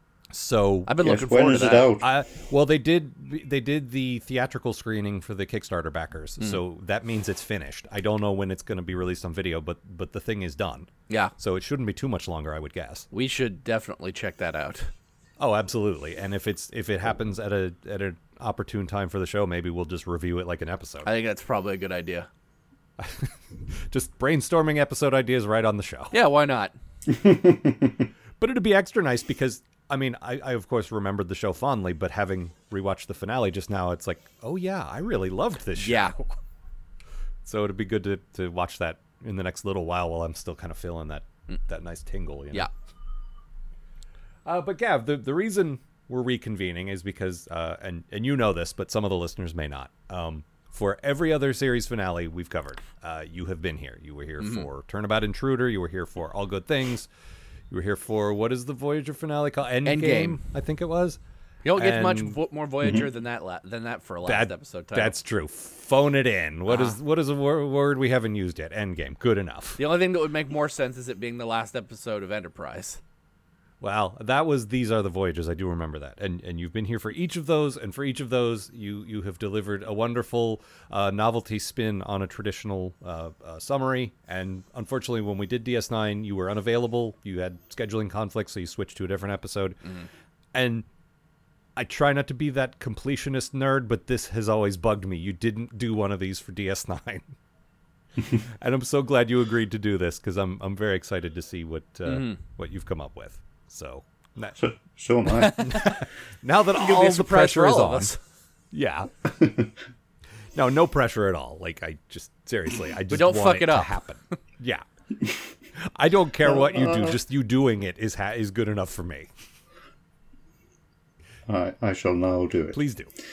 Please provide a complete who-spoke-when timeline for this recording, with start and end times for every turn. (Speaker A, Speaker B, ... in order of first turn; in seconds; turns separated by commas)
Speaker A: 0.3-0.9, Speaker B: 0.9-1.9, Speaker C: 1.0-2.0, Speaker A: 2.0-13.1, Speaker B: 13.1-14.9, Speaker A: 15.4-21.1, Speaker B: 21.0-22.3, Speaker A: 23.0-26.1, Speaker B: 26.1-26.7, Speaker C: 27.2-27.9, Speaker A: 28.4-36.3, Speaker B: 35.8-36.1, Speaker A: 37.4-42.7, Speaker A: 44.4-57.1, Speaker B: 54.4-54.7, Speaker A: 57.7-61.2, Speaker B: 59.8-60.4, Speaker B: 61.6-65.1, Speaker A: 61.7-62.4, Speaker A: 64.2-69.8, Speaker B: 66.7-67.0, Speaker B: 69.8-73.0, Speaker A: 73.8-89.8, Speaker A: 90.5-90.8, Speaker A: 91.8-97.3, Speaker A: 98.4-104.6, Speaker B: 102.0-102.4, Speaker C: 104.6-105.7, Speaker B: 105.3-106.0, Speaker A: 105.6-108.1, Speaker B: 106.7-108.2, Speaker A: 108.7-109.1, Speaker C: 109.4-109.7, Speaker A: 110.5-114.8, Speaker B: 113.1-113.9, Speaker A: 115.8-119.3, Speaker C: 116.6-117.1, Speaker C: 121.5-122.8, Speaker A: 122.7-123.1